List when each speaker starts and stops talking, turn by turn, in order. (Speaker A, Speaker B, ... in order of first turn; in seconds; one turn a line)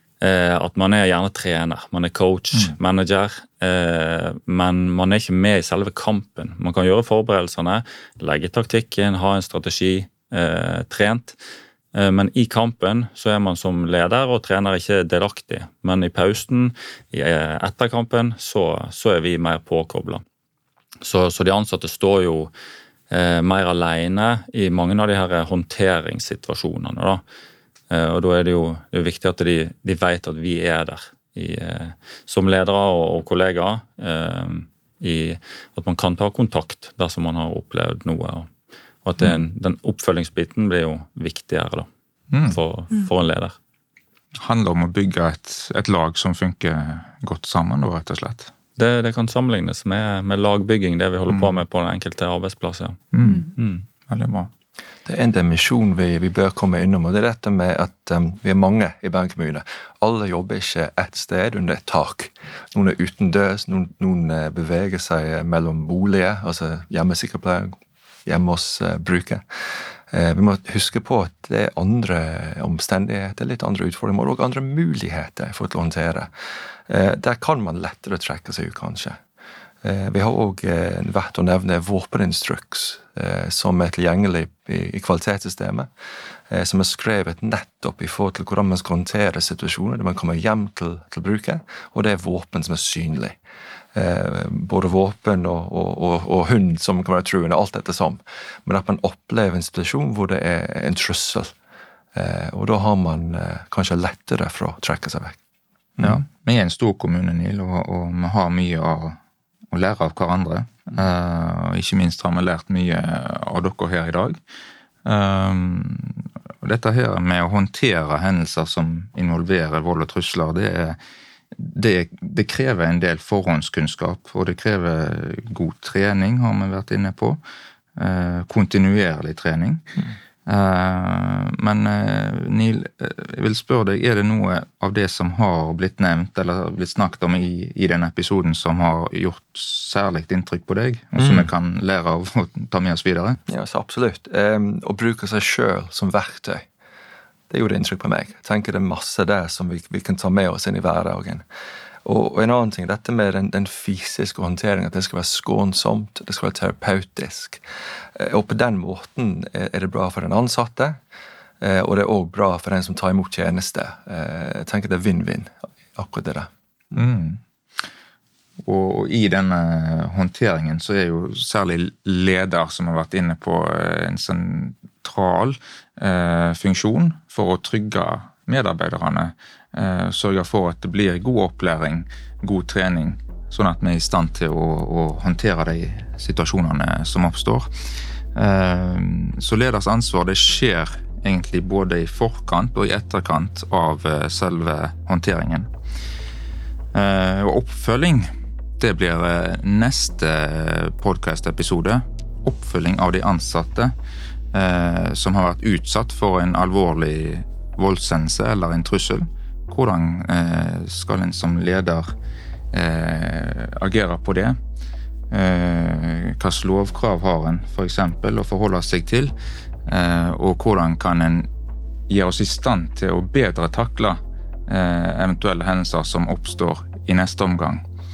Speaker A: 0.2-11.4
Speaker A: 11.9-20.2
Speaker A: 21.0-22.5
Speaker A: 23.1-27.2
Speaker A: 27.9-38.5
Speaker A: 39.0-41.9
Speaker B: 42.3-42.6
Speaker A: 42.4-43.5
Speaker B: 44.4-48.5
Speaker A: 48.8-53.0
Speaker B: 53.1-54.5
Speaker A: 53.6-53.8
Speaker C: 55.0-69.4
Speaker C: 70.1-76.3
Speaker C: 76.9-79.2
Speaker C: 79.8-85.9
Speaker C: 86.5-93.4
Speaker C: 94.0-101.5
Speaker C: 102.2-105.4
Speaker B: 106.0-109.2
Speaker B: 109.7-114.4
Speaker B: 115.0-121.0
Speaker B: 121.5-127.4
Speaker B: 128.0-129.8
Speaker B: 130.5-143.4
Speaker C: 141.2-141.5
Speaker C: 143.5-146.7
Speaker C: 147.5-151.4
Speaker C: 152.1-157.6
Speaker C: 158.2-161.0
Speaker C: 161.6-166.5
Speaker B: 166.9-167.4
Speaker B: 168.6-187.7
Speaker B: 188.3-195.7
Speaker B: 196.9-203.9
Speaker B: 204.5-212.1
Speaker B: 212.7-214.6
Speaker B: 215.3-219.3
Speaker B: 219.9-221.5
Speaker B: 222.1-227.8